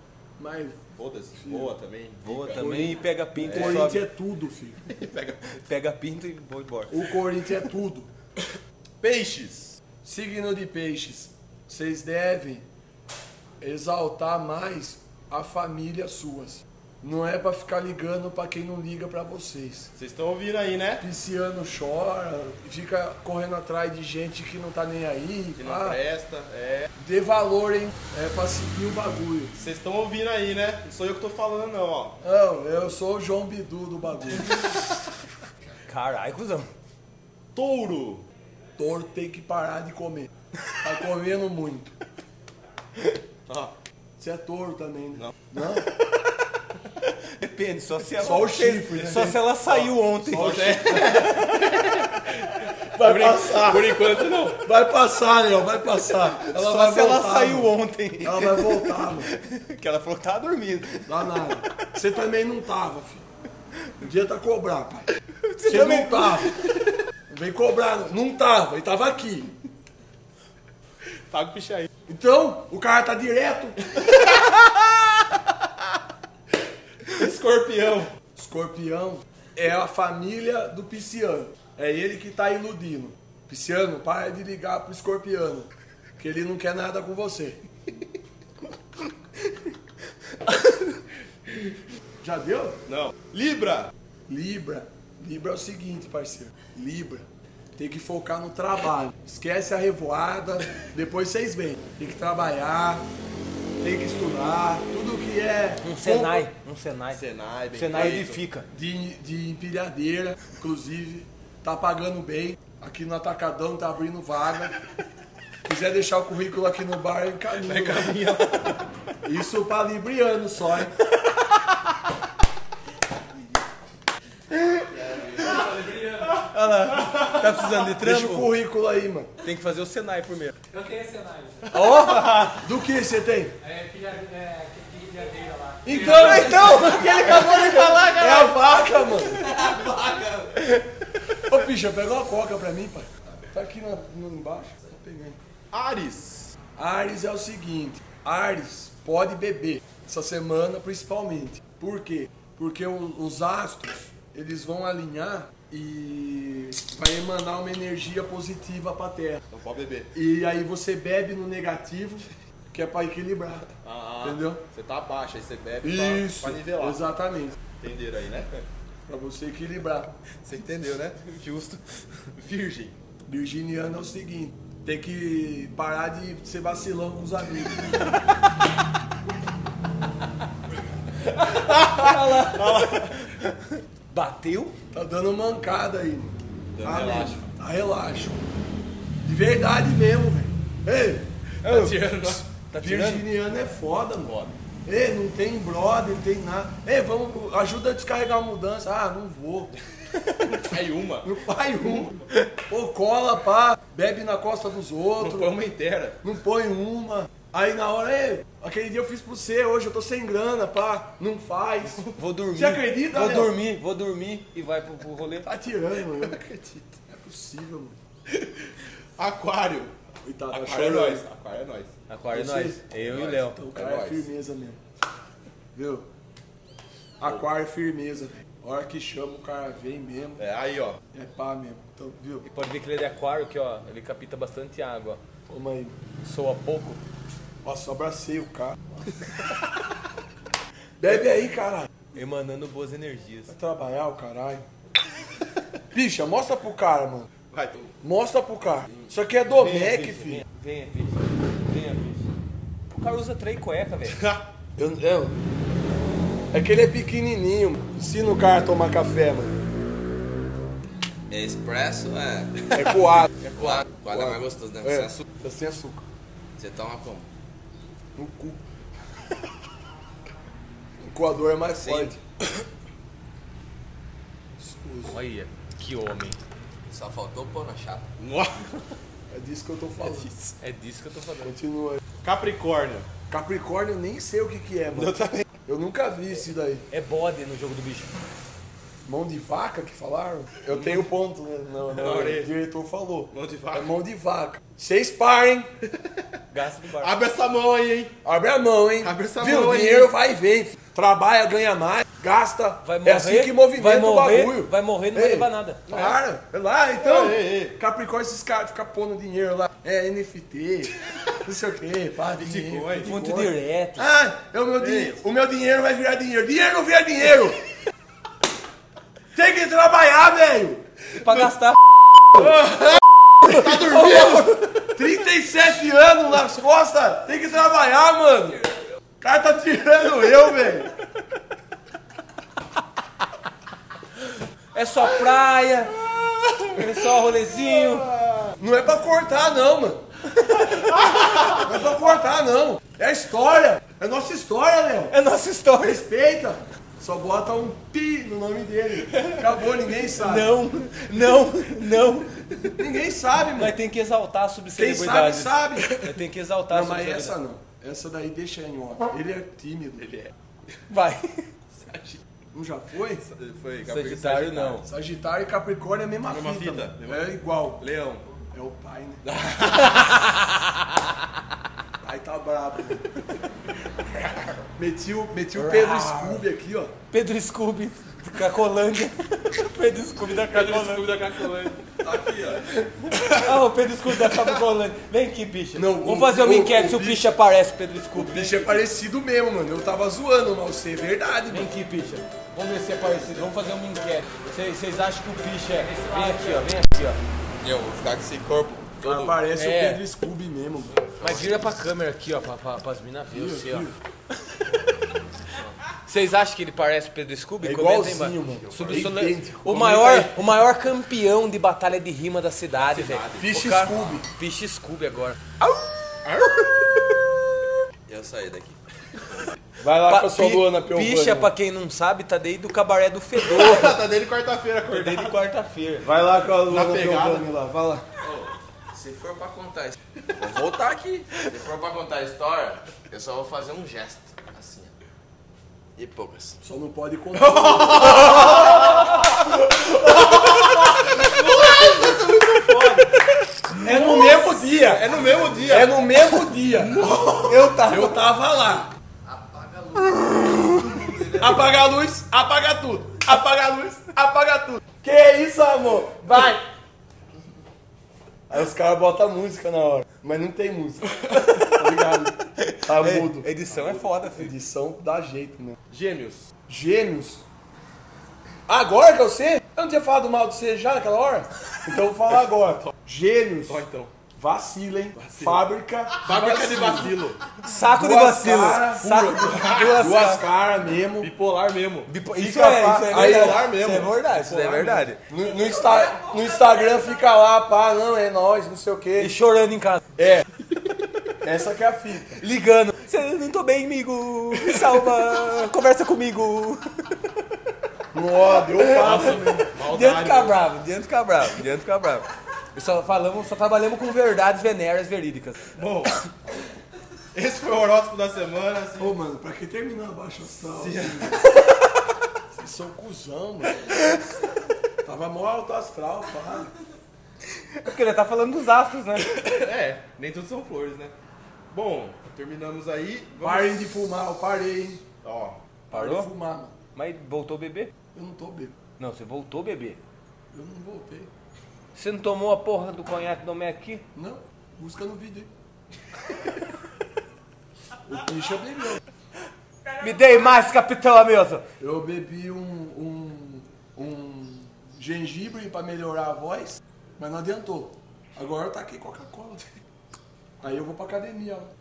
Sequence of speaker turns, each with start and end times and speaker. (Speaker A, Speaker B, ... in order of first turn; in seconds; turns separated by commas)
Speaker A: 0.4-0.8, Speaker B: 0.9-2.9, Speaker A: 1.4-1.7, Speaker C: 2.2-4.0, Speaker A: 2.5-4.8, Speaker B: 3.4-3.9, Speaker B: 4.8-5.5, Speaker C: 5.6-6.9, Speaker A: 6.9-8.1, Speaker B: 9.0-9.8, Speaker A: 10.1-12.7, Speaker A: 13.6-19.9, Speaker B: 20.0-21.0, Speaker A: 21.0-26.0, Speaker B: 25.6-26.9, Speaker A: 27.0-29.6, Speaker B: 29.6-32.2, Speaker A: 32.2-34.6, Speaker C: 35.9-36.7, Speaker B: 37.5-38.2, Speaker A: 38.8-41.9, Speaker B: 43.5-43.7, Speaker A: 44.2-45.9, Speaker C: 47.4-51.5, Speaker A: 48.2-49.3, Speaker B: 49.0-52.3, Speaker A: 50.3-51.3, Speaker A: 52.9-59.3, Speaker B: 53.0-54.6, Speaker C: 56.5-61.3, Speaker A: 61.1-63.2, Speaker A: 64.0-65.1, Speaker C: 65.4-66.7, Speaker A: 65.6-66.6, Speaker A: 67.3-69.5, Speaker B: 71.3-71.9, Speaker A: 72.1-73.8, Speaker B: 73.9-74.8, Speaker B: 77.1-78.1, Speaker A: 78.4-87.6, Speaker A: 92.2-92.8, Speaker B: 92.9-93.9, Speaker A: 94.3-97.3, Speaker A: 97.8-103.1, Speaker A: 103.8-106.5, Speaker C: 105.8-108.7, Speaker B: 107.1-108.4, Speaker A: 108.7-114.7, Speaker A: 115.7-118.1, Speaker B: 117.6-118.9, Speaker A: 119.2-120.9, Speaker D: 125.3-126.5, Speaker C: 126.4-128.5, Speaker A: 128.0-129.3, Speaker C: 129.4-130.5, Speaker D: 130.7-132.0, Speaker C: 131.7-132.7, Speaker A: 132.6-133.6, Speaker D: 133.6-137.1, Speaker A: 135.8-139.5, Speaker C: 136.0-138.4, Speaker B: 137.3-138.5, Speaker A: 141.4-145.4, Speaker B: 145.7-146.6, Speaker A: 146.8-159.4, Speaker B: 159.5-160.1, Speaker A: 160.1-163.7, Speaker B: 163.8-167.0, Speaker A: 164.2-164.6, Speaker A: 165.8-167.6, Speaker B: 167.8-168.6, Speaker A: 169.1-170.1, Speaker B: 170.4-171.3, Speaker C: 171.4-171.8, Speaker B: 172.4-172.9, Speaker A: 173.3-177.9, Speaker C: 181.4-184.8, Speaker B: 181.5-183.1, Speaker A: 184.9-188.5, Speaker B: 186.8-187.5, Speaker A: 189.2-191.9, Speaker B: 191.6-192.4, Speaker C: 192.2-193.2, Speaker A: 192.8-194.3, Speaker B: 194.2-194.5, Speaker A: 194.9-199.8, Speaker B: 200.5-202.1, Speaker A: 201.2-202.2, Speaker A: 202.7-205.5, Speaker B: 205.2-206.2, Speaker A: 206.2-212.0, Speaker C: 212.2-215.5, Speaker A: 212.5-213.6, Speaker A: 215.4-216.4, Speaker B: 216.2-216.9, Speaker A: 217.1-218.0, Speaker B: 219.2-219.9, Speaker A: 220.2-221.2, Speaker B: 220.5-221.9, Speaker C: 222.1-223.6, Speaker A: 222.3-222.8, Speaker B: 223.0-224.3, Speaker A: 223.4-224.8, Speaker A: 225.8-226.1, Speaker A: 227.2-230.4, Speaker B: 230.4-231.0, Speaker A: 231.1-232.5, Speaker C: 232.4-235.2, Speaker A: 235.5-236.0, Speaker C: 236.2-237.0, Speaker A: 237.6-238.8, Speaker A: 241.0-241.9, Speaker C: 242.2-243.5, Speaker A: 243.5-244.7, Speaker A: 245.9-247.3, Speaker B: 247.5-247.9, Speaker A: 248.0-250.4, Speaker C: 249.6-252.3, Speaker C: 252.9-254.2, Speaker B: 254.1-254.4, Speaker A: 254.8-255.4, Speaker A: 256.5-259.6, Speaker E: 261.3-262.5, Speaker A: 262.8-263.3, Speaker C: 263.4-263.8, Speaker E: 263.6-265.1, Speaker B: 263.6-264.2, Speaker A: 264.1-266.0, Speaker E: 266.6-267.3, Speaker A: 268.2-268.6, Speaker A: 271.0-272.2, Speaker A: 274.6-275.2, Speaker C: 275.1-276.4, Speaker E: 276.9-278.1, Speaker B: 278.2-278.8, Speaker A: 279.3-280.3, Speaker C: 280.6-281.6, Speaker A: 281.5-282.0, Speaker B: 282.2-283.1, Speaker A: 283.3-286.9, Speaker C: 286.9-288.1, Speaker A: 289.1-295.7, Speaker B: 290.7-291.1, Speaker B: 291.9-292.5, Speaker B: 293.3-293.9, Speaker C: 296.5-297.1, Speaker B: 297.0-298.1, Speaker A: 298.2-313.2, Speaker B: 299.0-300.1, Speaker C: 302.8-305.9, Speaker B: 305.9-306.2, Speaker B: 307.0-307.8, Speaker B: 312.3-313.5, Speaker C: 313.0-314.1, Speaker A: 314.0-317.6, Speaker B: 314.8-315.2, Speaker A: 319.4-320.8, Speaker C: 321.2-321.8, Speaker B: 322.4-324.6, Speaker C: 323.8-324.3, Speaker A: 324.9-328.7, Speaker A: 329.2-330.9, Speaker C: 334.7-338.1, Speaker B: 337.9-338.5, Speaker A: 338.6-340.0, Speaker A: 341.4-345.1, Speaker C: 345.1-346.0, Speaker A: 345.8-350.5, Speaker C: 350.2-352.4, Speaker A: 352.8-353.8, Speaker C: 353.6-357.4, Speaker A: 354.8-356.1, Speaker A: 356.7-360.2, Speaker C: 360.9-361.5, Speaker B: 361.8-362.2, Speaker A: 362.5-363.2, Speaker B: 363.2-364.9, Speaker C: 363.9-364.9, Speaker A: 364.9-367.8, Speaker B: 366.3-368.2, Speaker A: 368.5-369.2, Speaker B: 369.2-370.2, Speaker C: 370.0-370.4, Speaker A: 372.0-373.0, Speaker B: 374.1-374.6, Speaker A: 374.8-376.9, Speaker C: 375.6-376.4, Speaker C: 377.1-381.1, Speaker B: 380.5-382.7, Speaker C: 383.1-388.9, Speaker A: 385.7-387.3, Speaker A: 388.1-391.7, Speaker C: 391.5-397.2, Speaker D: 395.8-396.7, Speaker B: 397.6-399.3, Speaker A: 399.0-401.0, Speaker C: 399.6-400.0, Speaker C: 401.2-403.9, Speaker A: 403.3-403.9, Speaker C: 406.1-415.8, Speaker A: 407.6-410.4, Speaker B: 412.9-413.5, Speaker A: 413.4-414.3, Speaker B: 416.2-416.7, Speaker B: 418.1-418.7, Speaker A: 419.8-421.5, Speaker C: 420.1-424.0, Speaker B: 423.4-425.4, Speaker C: 424.9-426.1, Speaker A: 426.0-428.1, Speaker B: 426.6-427.5, Speaker E: 428.9-429.9, Speaker E: 431.1-434.9, Speaker E: 436.3-436.5, Speaker A: 436.6-438.6, Speaker B: 437.4-443.2, Speaker A: 443.7-445.1, Speaker B: 443.8-446.0, Speaker A: 445.7-447.1, Speaker B: 446.7-447.8, Speaker C: 447.4-448.2, Speaker A: 447.8-448.9, Speaker E: 449.3-450.0, Speaker A: 451.4-456.6, Speaker A: 458.5-463.5, Speaker C: 462.7-464.5, Speaker B: 463.7-464.1, Speaker A: 464.4-465.8, Speaker B: 465.9-466.4, Speaker A: 466.7-467.4, Speaker A: 468.7-473.8, Speaker B: 473.7-474.1, Speaker A: 474.4-477.1, Speaker B: 475.2-475.6, Speaker B: 476.2-477.4, Speaker C: 477.6-480.4, Speaker A: 477.9-481.3, Speaker B: 479.4-480.1, Speaker B: 481.2-482.1, Speaker C: 482.1-485.2, Speaker A: 482.4-483.7, Speaker B: 483.1-485.1, Speaker A: 485.3-489.3, Speaker C: 489.2-490.0, Speaker A: 490.2-490.4, Speaker A: 491.4-492.4, Speaker C: 492.4-497.2, Speaker A: 498.1-499.7, Speaker B: 498.8-500.6, Speaker C: 499.9-505.7, Speaker B: 505.8-506.2, Speaker B: 507.3-509.1, Speaker A: 509.0-511.4, Speaker B: 510.7-511.4, Speaker A: 512.5-514.0, Speaker A: 515.0-516.7, Speaker C: 517.8-519.4, Speaker B: 519.3-521.1, Speaker B: 521.7-523.9, Speaker A: 523.4-525.0, Speaker B: 525.2-525.6, Speaker A: 525.9-526.8, Speaker C: 525.9-526.3, Speaker C: 527.0-527.9, Speaker A: 528.1-528.7, Speaker C: 529.0-530.0, Speaker A: 530.5-531.3, Speaker C: 532.0-534.0, Speaker A: 534.1-535.5, Speaker A: 538.1-539.0, Speaker C: 540.0-541.6, Speaker A: 541.8-549.7, Speaker A: 550.6-551.7